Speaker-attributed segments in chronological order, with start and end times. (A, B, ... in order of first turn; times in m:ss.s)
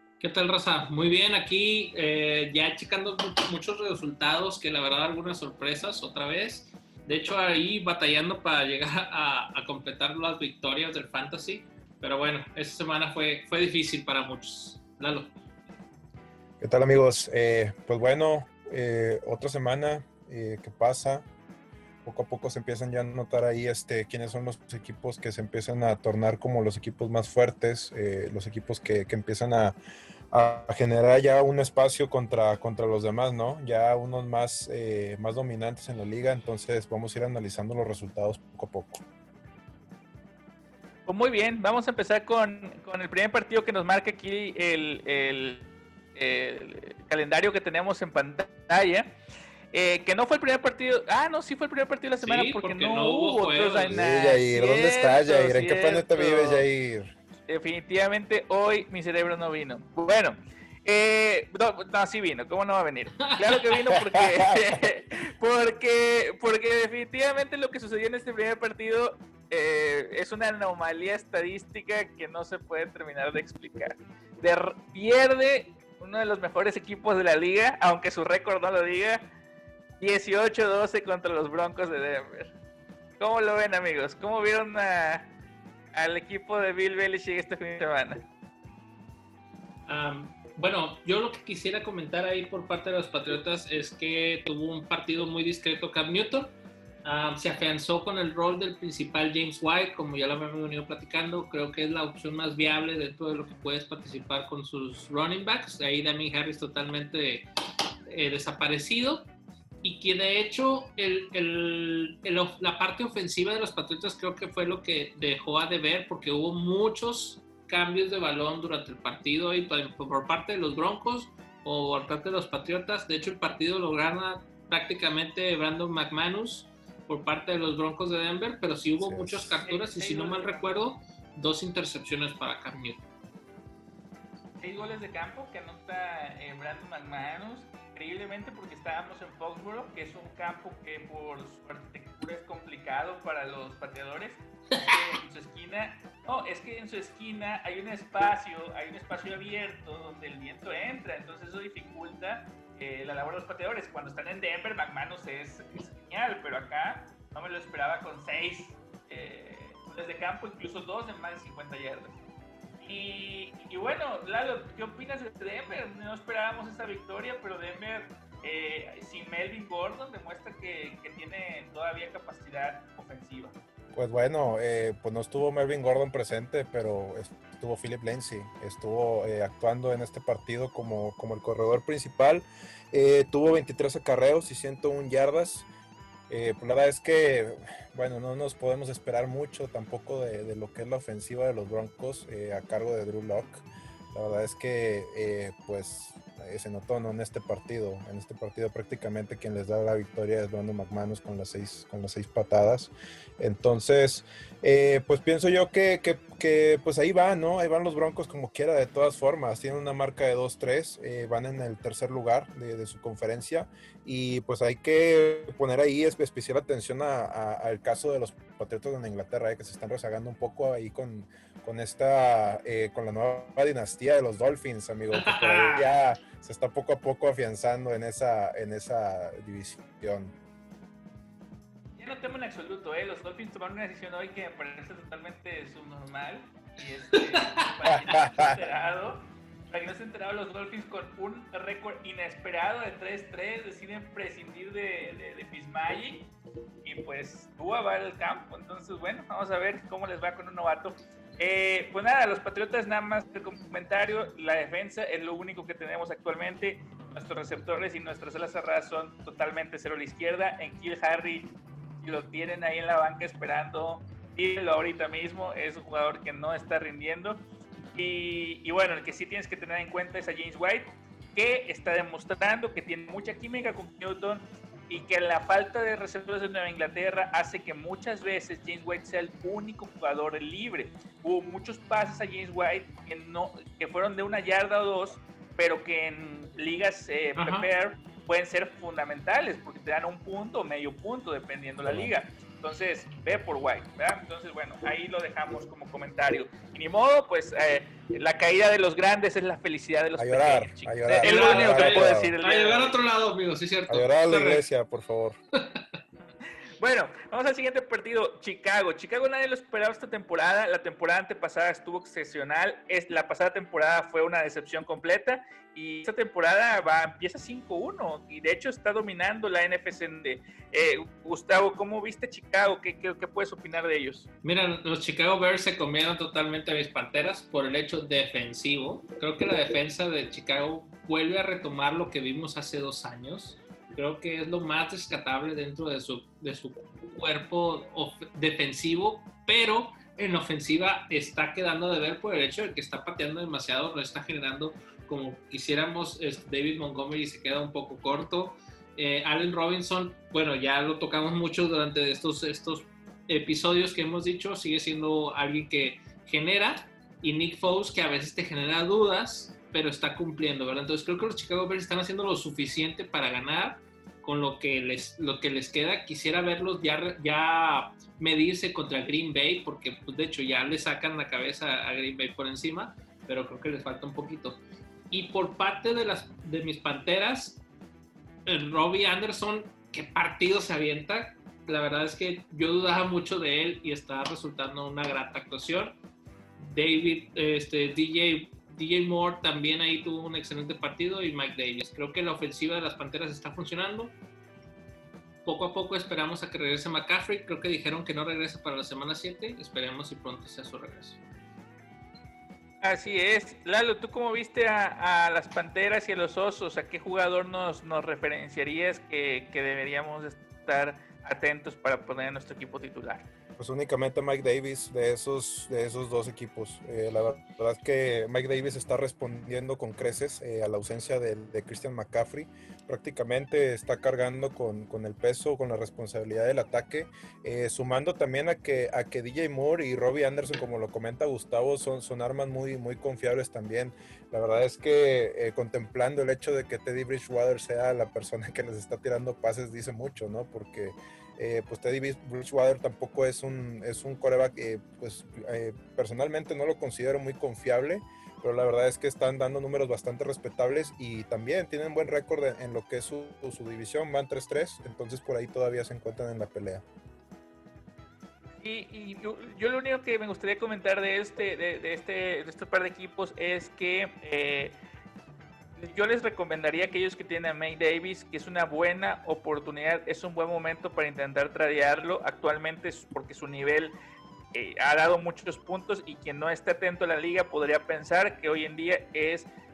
0:00.2-0:15.3 A
0:16.6-0:21.3 B
0:22.0-0:29.8 B
0:30.3-0:39.0 B
0:41.1-0:49.1 C
0:49.7-0:56.6 C
0:52.2-0:54.0 A
0:53.9-0:57.1 B
0:57.5-1:19.2 C
1:03.2-1:03.8 A
1:04.0-1:04.6 B
1:20.0-1:22.5 C
1:23.2-1:25.3 C
1:25.9-1:28.2 C
1:29.9-1:36.5 A
1:37.0-1:47.5 A
1:48.1-1:49.3 A
1:49.8-2:13.0 A
2:09.0-2:09.5 B
2:09.6-2:10.8 C
2:14.6-2:42.2 C
2:42.8-2:53.5 C
2:53.9-3:05.7 B
3:06.3-3:50.3 B
3:45.1-3:45.9 A
3:52.0-4:06.3 C
3:57.8-3:58.6 B
4:06.8-4:27.4 C
4:27.9-5:03.0 C
4:47.4-4:47.7 A
4:51.8-4:52.1 B
5:00.2-5:02.3 B
5:01.2-5:04.7 A
5:03.9-5:05.4 B
5:06.8-5:24.3 C
5:24.4-6:14.6 A
6:15.1-6:17.6 A
6:18.4-6:25.9 A
6:26.6-6:34.1 A
6:35.4-6:41.2 A
6:42.8-6:53.2 C
6:53.6-7:36.8 B
7:38.6-7:44.8 C
7:45.8-7:53.9 C
7:54.5-7:59.5 C